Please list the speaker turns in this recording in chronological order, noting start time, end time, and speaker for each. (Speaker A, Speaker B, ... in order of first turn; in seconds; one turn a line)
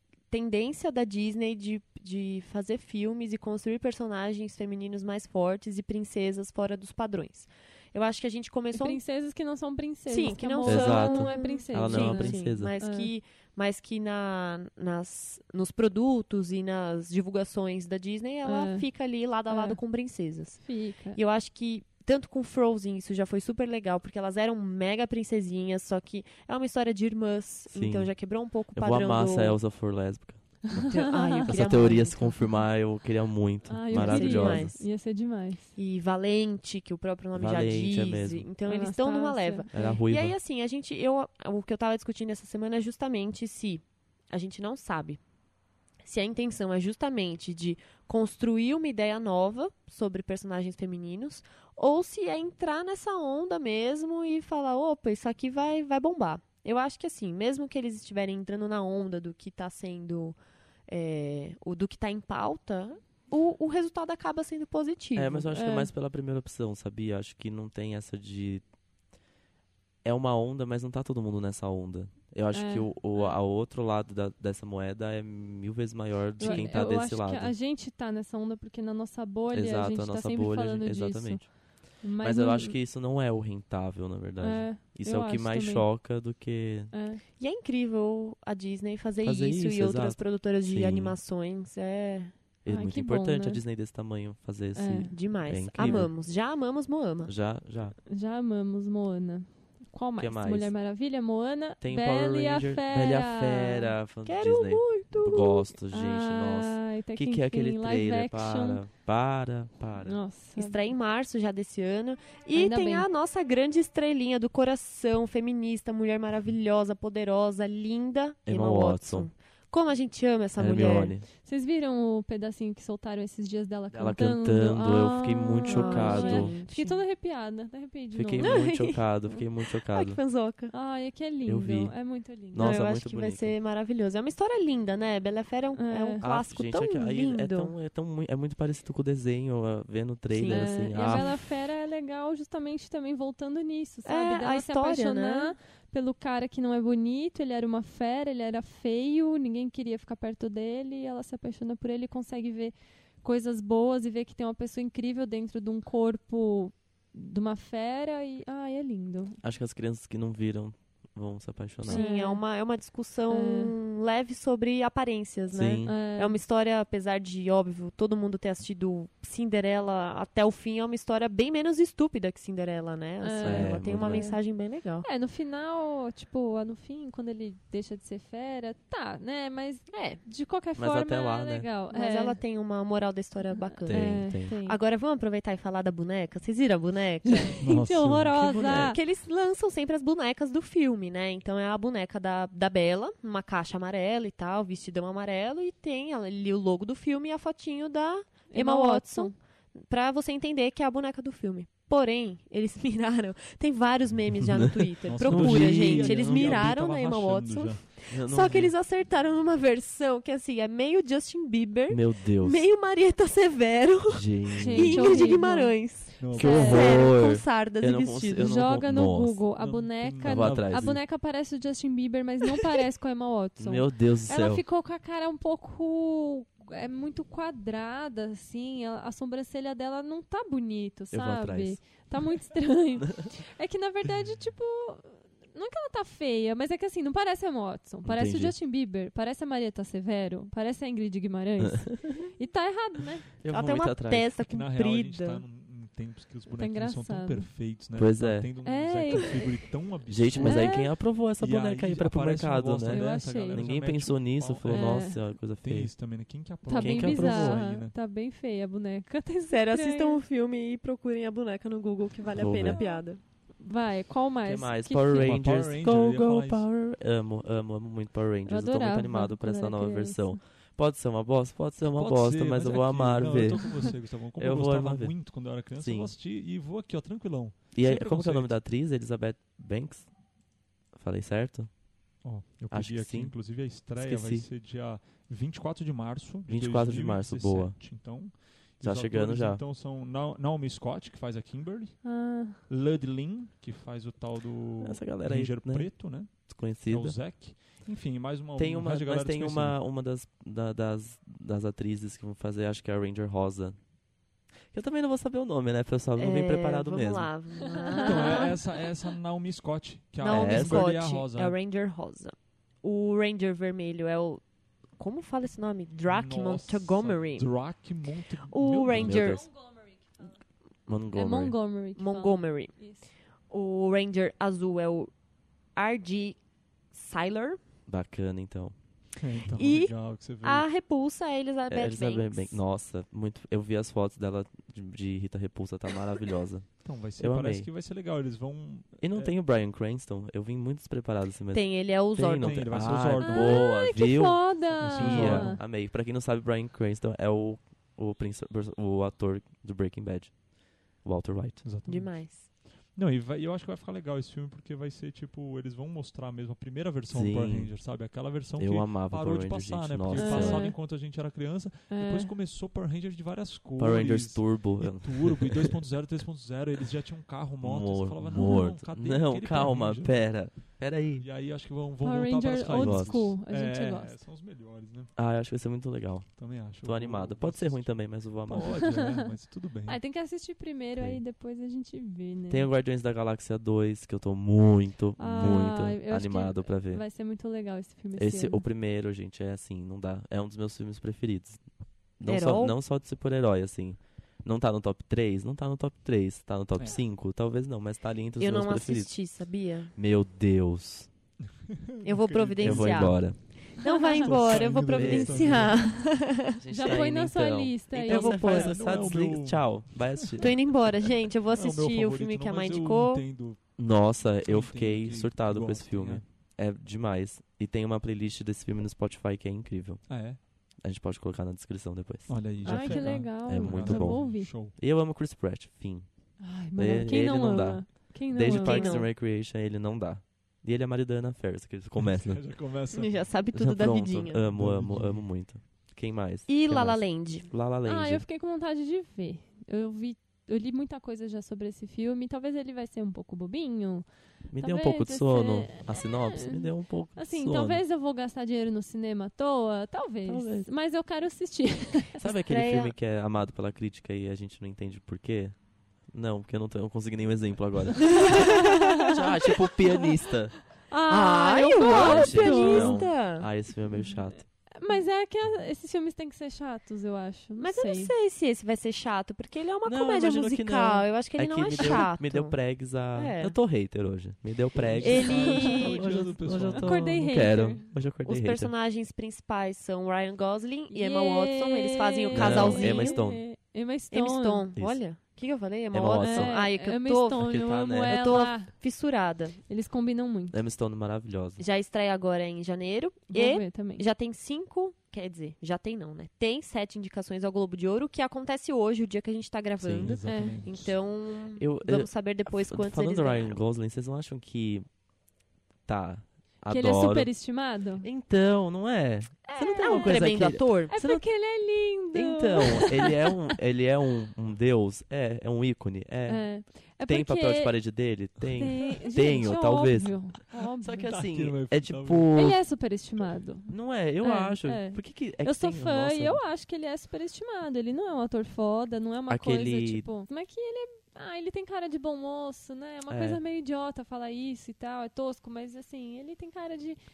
Speaker A: 0.3-9.0
Speaker B: 8.7-13.1
Speaker A: 10.1-29.6
Speaker C: 10.7-12.7
Speaker B: 18.4-18.9
Speaker B: 19.5-19.8
Speaker B: 20.6-21.2
Speaker C: 27.7-28.1
Speaker C: 28.7-30.9
Speaker B: 30.7-31.7
Speaker A: 30.8-32.5
Speaker C: 31.5-34.8
Speaker B: 33.7-35.8
Speaker A: 33.9-34.8
Speaker A: 35.8-45.2
Speaker C: 37.4-38.5
Speaker B: 38.7-40.0
Speaker C: 39.7-40.4
Speaker A: 46.0-65.5
Speaker C: 65.2-68.6
Speaker B: 65.5-65.9
Speaker C: 70.0-77.5
Speaker B: 72.5-73.4
Speaker B: 76.4-82.8
Speaker A: 76.4-76.7
Speaker C: 79.5-86.9
Speaker B: 84.4-85.9
Speaker B: 86.9-87.2
Speaker A: 87.4-92.3
Speaker C: 89.2-91.2
Speaker C: 92.7-96.1
Speaker B: 92.7-93.6
Speaker B: 94.8-95.2
Speaker A: 95.1-97.3
Speaker C: 97.3-98.0
Speaker B: 98.1-103.9
Speaker C: 100.2-100.7
Speaker C: 101.8-110.2
Speaker A: 104.3-105.6
Speaker B: 105.3-108.8
Speaker B: 110.1-110.8
Speaker A: 110.5-121.1
Speaker B: 112.5-113.1
Speaker C: 118.5-119.3
Speaker C: 120.6-121.3
Speaker B: 121.4-128.6
Speaker C: 123.9-126.6
Speaker A: 125.7-127.0
Speaker C: 128.1-130.2
Speaker A: 128.4-129.1
Speaker A: 129.8-130.7
Speaker B: 130.7-132.8
Speaker C: 131.5-133.5
Speaker A: 132.6-137.7
Speaker B: 135.8-136.2
Speaker C: 136.2-141.4
Speaker A: 140.3-141.3
Speaker B: 140.5-159.4
Speaker A: 144.1-145.6
Speaker C: 159.4-162.0
Speaker B: 161.8-162.4
Speaker A: 161.9-175.1
Speaker B: 163.3-163.7
Speaker C: 165.5-165.9
Speaker B: 165.8-166.4
Speaker B: 173.2-174.4
Speaker C: 173.4-174.3
Speaker B: 175.0-182.4
Speaker A: 179.9-180.2
Speaker C: 180.8-181.7
Speaker A: 181.9-187.6
Speaker B: 183.8-184.8
Speaker C: 183.9-184.6
Speaker B: 187.4-189.0
Speaker D: 187.6-188.6
Speaker C: 188.3-189.0
Speaker A: 188.8-218.5
Speaker B: 198.5-199.3
Speaker D: 205.1-207.9
Speaker C: 205.2-206.7
Speaker C: 208.1-208.7
Speaker C: 211.9-212.6
Speaker C: 214.1-215.4
Speaker B: 214.6-217.1
Speaker D: 216.2-216.7
Speaker C: 216.3-219.4
Speaker B: 218.3-243.3
Speaker D: 219.5-221.0
Speaker C: 220.2-221.0
Speaker C: 223.6-224.6
Speaker C: 231.1-232.0
Speaker C: 238.0-238.6
Speaker C: 243.4-244.3
Speaker A: 243.5-245.4
Speaker D: 244.4-257.9
Speaker B: 246.5-247.5
Speaker C: 247.9-248.5
Speaker B: 248.6-249.4
Speaker C: 250.1-257.6
Speaker B: 250.4-250.9
Speaker B: 252.9-253.7
Speaker B: 254.7-255.2
Speaker B: 256.6-260.2
Speaker A: 259.5-263.2
Speaker C: 262.4-262.8
Speaker B: 262.7-263.1
Speaker B: 263.6-265.4
Speaker C: 264.4-276.1
Speaker D: 265.2-266.6
Speaker B: 268.5-270.4
Speaker D: 271.8-278.6
Speaker C: 277.7-280.1
Speaker C: 280.9-281.7
Speaker D: 282.2-299.8
Speaker C: 282.7-284.5
Speaker C: 286.5-287.8
Speaker C: 288.8-289.6
Speaker B: 292.0-292.6
Speaker C: 294.8-297.2
Speaker C: 298.6-303.8
Speaker C: 304.7-307.3
Speaker A: 306.2-308.6
Speaker B: 307.8-308.5
Speaker D: 307.9-311.6
Speaker A: 310.2-314.4
Speaker C: 310.3-310.9
Speaker A: 315.0-317.7
Speaker D: 316.1-319.4
Speaker A: 318.5-319.5
Speaker C: 318.9-319.5
Speaker C: 320.9-321.6
Speaker B: 321.1-323.1
Speaker A: 322.0-322.8
Speaker A: 323.5-325.1
Speaker A: 325.8-326.4
Speaker A: 326.9-327.6
Speaker C: 327.9-328.8
Speaker D: 329.2-330.7
Speaker A: 329.5-332.6
Speaker C: 331.7-337.7
Speaker D: 336.8-339.4
Speaker C: 339.0-351.6
Speaker A: 341.5-342.9
Speaker D: 342.4-343.7
Speaker B: 343.2-345.6
Speaker D: 344.8-345.6
Speaker D: 351.6-375.1
Speaker A: 351.9-352.5
Speaker C: 357.1-358.0
Speaker C: 358.6-360.7
Speaker B: 360.2-360.8
Speaker B: 361.9-362.3
Speaker C: 363.8-365.8
Speaker C: 367.6-371.3
Speaker B: 368.3-368.7
Speaker B: 372.0-374.2
Speaker C: 372.7-373.3
Speaker C: 375.2-379.0
Speaker D: 376.4-380.0
Speaker B: 378.7-379.3
Speaker B: 379.9-382.7
Speaker C: 382.5-387.1
Speaker B: 385.2-388.6
Speaker C: 388.2-391.6
Speaker C: 392.2-399.3
Speaker A: 392.2-392.8
Speaker A: 398.4-399.9
Speaker C: 399.9-401.1
Speaker D: 401.6-403.7
Speaker A: 402.0-407.0
Speaker C: 402.6-403.7
Speaker B: 403.9-404.4
Speaker D: 404.2-406.1
Speaker C: 404.8-405.8
Speaker C: 406.6-410.9
Speaker B: 406.7-408.8
Speaker A: 408.1-408.7
Speaker D: 408.1-410.5
Speaker A: 410.4-413.2
Speaker D: 411.5-413.8
Speaker C: 413.8-426.1
Speaker D: 414.4-416.2
Speaker D: 420.1-420.4
Speaker D: 422.3-424.7
Speaker B: 422.6-424.5
Speaker B: 426.4-429.0
Speaker C: 426.8-432.6
Speaker A: 428.5-429.1
Speaker D: 432.0-433.3
Speaker A: 432.9-434.4
Speaker C: 433.5-438.2
Speaker D: 434.5-435.3
Speaker A: 436.5-437.5
Speaker B: 437.9-444.1
Speaker C: 444.5-447.8
Speaker B: 444.6-452.2
Speaker C: 450.3-450.7
Speaker C: 452.2-460.7
Speaker A: 452.3-452.9
Speaker B: 458.2-459.2
Speaker A: 458.2-458.5
Speaker B: 460.8-463.1
Speaker A: 461.1-463.5
Speaker C: 461.8-464.5
Speaker B: 464.7-468.1
Speaker A: 467.6-472.6
Speaker C: 469.9-478.7
Speaker B: 471.8-472.1
Speaker A: 473.1-473.6
Speaker D: 474.9-477.2
Speaker A: 475.0-476.9
Speaker B: 475.3-475.8
Speaker B: 476.8-477.9
Speaker A: 478.2-483.2
Speaker B: 480.9-484.7
Speaker C: 482.3-483.4
Speaker A: 484.1-489.6
Speaker C: 485.9-486.6
Speaker B: 486.2-488.7
Speaker C: 487.4-488.4
Speaker B: 489.7-490.6
Speaker C: 490.5-491.6
Speaker A: 491.6-503.6
Speaker B: 493.3-494.0
Speaker C: 499.8-500.2
Speaker D: 500.0-500.9
Speaker B: 500.3-500.6
Speaker C: 501.6-504.9
Speaker C: 505.9-507.3
Speaker B: 506.7-508.1
Speaker C: 508.0-511.2
Speaker B: 509.5-510.2
Speaker A: 509.6-510.9
Speaker B: 510.9-513.3
Speaker C: 512.1-522.6
Speaker B: 516.3-517.7
Speaker B: 518.5-521.2
Speaker D: 521.0-522.3
Speaker B: 522.3-537.0
Speaker C: 523.7-526.4
Speaker C: 529.3-530.1
Speaker C: 533.1-533.4